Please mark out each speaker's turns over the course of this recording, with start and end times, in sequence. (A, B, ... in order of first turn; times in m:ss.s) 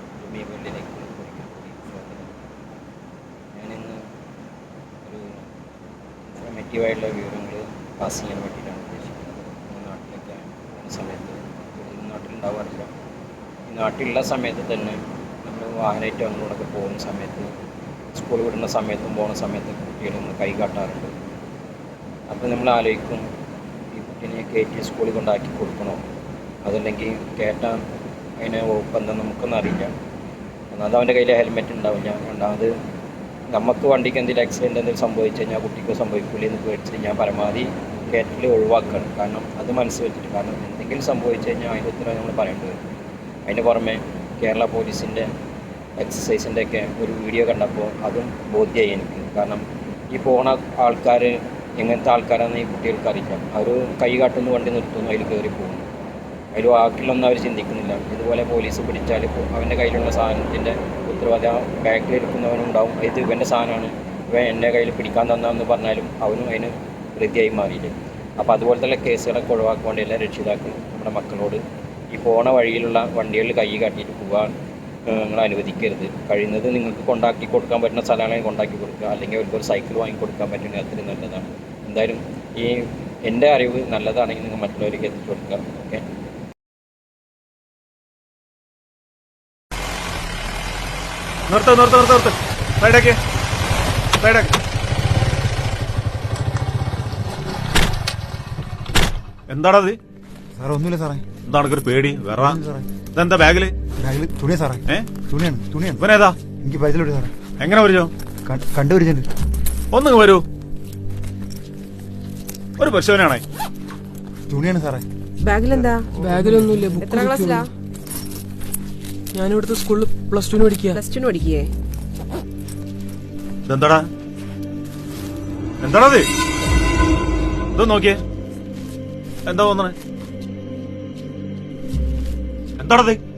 0:00.2-0:02.6 A
0:03.5-0:04.0 A
0:05.0-0:05.4 A
0:06.3-0:12.9 A
0:13.7-0:17.5 A
0:18.2-0:21.1 A
0:22.3-0:23.3 A
0:23.9-0:26.0 A
0:26.6-0:27.8 A
0:28.4-0:29.9 A
0:30.7-0:32.7 A
0:33.5-0:42.8 A
0:43.5-0:45.3 A
0:46.0-0:55.9 A
0:56.6-1:14.5 A
1:15.1-1:26.0 A
1:31.5-1:33.2 B
1:34.2-1:34.5 B
1:39.5-1:40.0 B
1:40.6-1:41.2 C
1:41.5-1:42.6 B
1:42.4-1:42.9 C
1:43.1-1:43.7 B
1:44.0-1:47.3 C
1:46.0-1:46.4 B
1:47.6-1:48.1 B
1:48.4-1:49.3 C
1:49.9-1:50.4 B
1:52.8-1:53.4 B
1:54.5-1:55.0 C
1:55.4-1:56.1 D
1:56.2-1:57.7 E
1:57.0-1:57.7 D
1:59.3-2:01.0 E
2:00.9-2:01.7 D
2:03.7-2:04.1 B
2:05.8-2:06.3 B
2:07.8-2:08.2 B
2:09.5-2:10.0 B
2:12.8-2:13.2 B